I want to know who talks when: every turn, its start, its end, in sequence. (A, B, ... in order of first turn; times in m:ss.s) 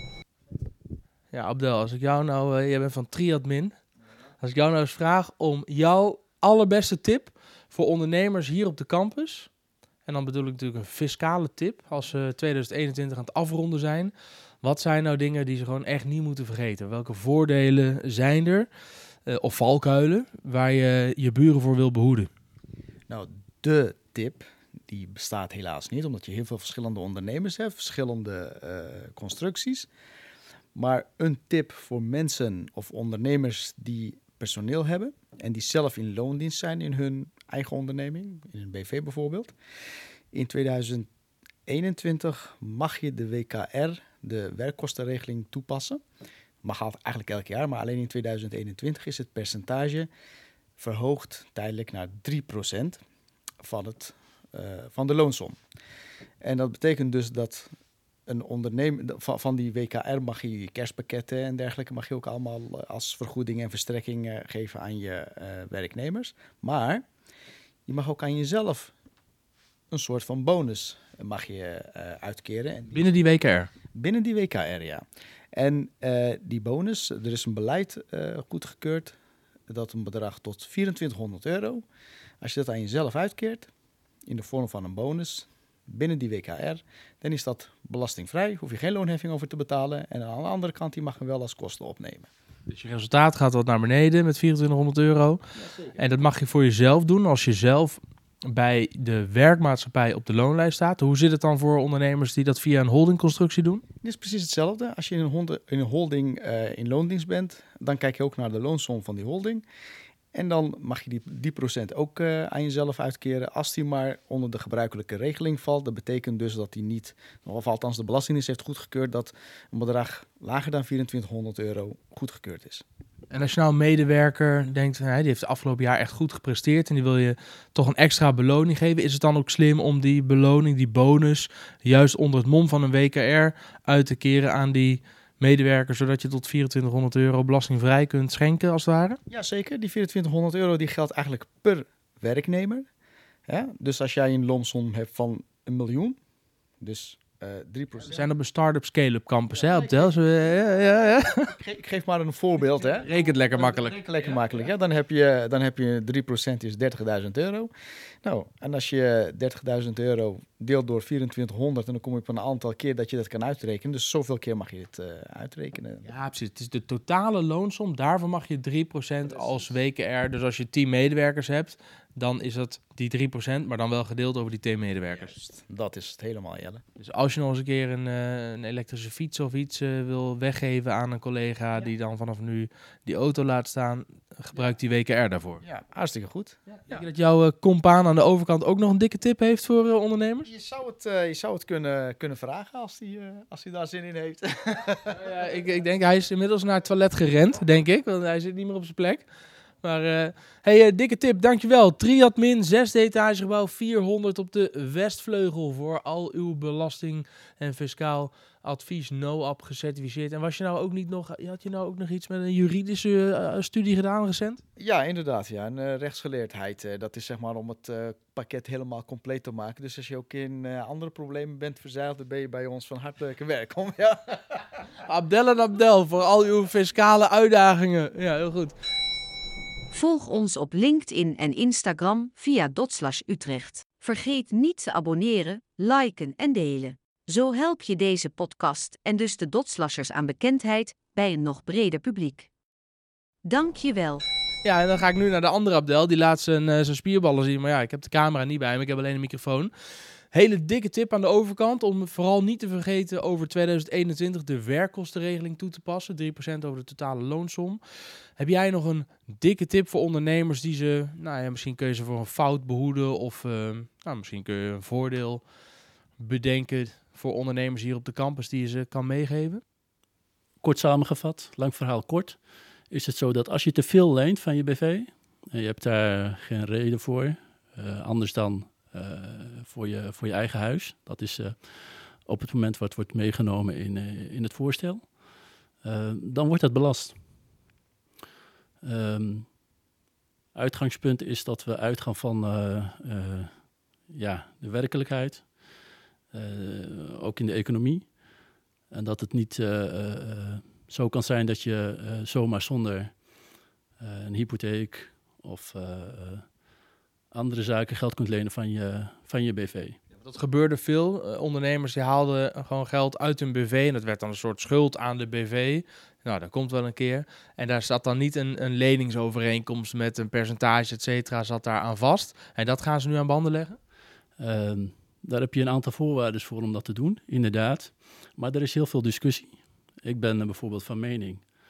0:01.3-0:03.8 A
0:04.4-0:09.5 A
0:10.1-0:18.7 A
0:19.3-0:22.3 A
0:23.1-0:29.9 B
0:30.8-0:39.5 B
0:40.3-0:41.1 B
0:41.7-0:46.0 B
0:46.6-0:50.1 B
0:50.8-0:53.0 B
0:53.6-0:55.6 B
0:56.4-0:57.7 B
0:58.3-1:07.0 B
1:07.9-1:08.9 B
1:09.9-1:13.1 B
1:12.9-1:13.7 A
1:13.9-1:19.1 B
1:19.7-1:21.8 B
1:22.4-1:23.7 B
1:24.3-1:32.3 B
1:32.7-1:35.4 A
1:35.6-1:36.0 B
1:36.0-1:43.8 A
1:44.0-1:49.6 B
1:50.3-2:02.8 B
2:03.3-2:19.2 A
2:19.3-2:22.9 B
2:23.5-2:26.2 B
2:26.8-2:28.3 B
2:28.1-2:31.5 A
2:29.6-2:30.2 B
2:31.3-2:37.7 B
2:33.0-2:34.0 A
2:38.2-2:46.1 B
2:46.1-2:55.3 A
2:49.2-2:49.7 B
2:55.1-2:56.8 B
2:57.0-3:05.6 A
3:05.6-3:07.0 B
3:06.8-3:10.5 A
3:10.4-3:15.2 B
3:15.1-3:19.3 A
3:19.8-3:34.6 A
3:34.8-3:44.6 B
3:45.1-3:48.7 A
3:49.9-4:02.5 C
4:03.4-4:04.2 C
4:04.6-4:09.7 A
4:10.3-4:17.8 A
4:18.4-4:25.4 A
4:26.2-4:29.6 A
4:30.6-4:32.4 D
4:32.9-4:45.0 D
4:45.8-4:47.2 D
4:48.8-4:49.5 D
4:50.5-4:53.5 D
4:54.1-4:55.5 D
4:56.3-4:58.1 D
4:58.9-5:03.1 D
5:04.0-5:06.4 D
5:07.3-5:10.0 D
5:10.2-5:23.8 A
5:24.4-5:31.4 D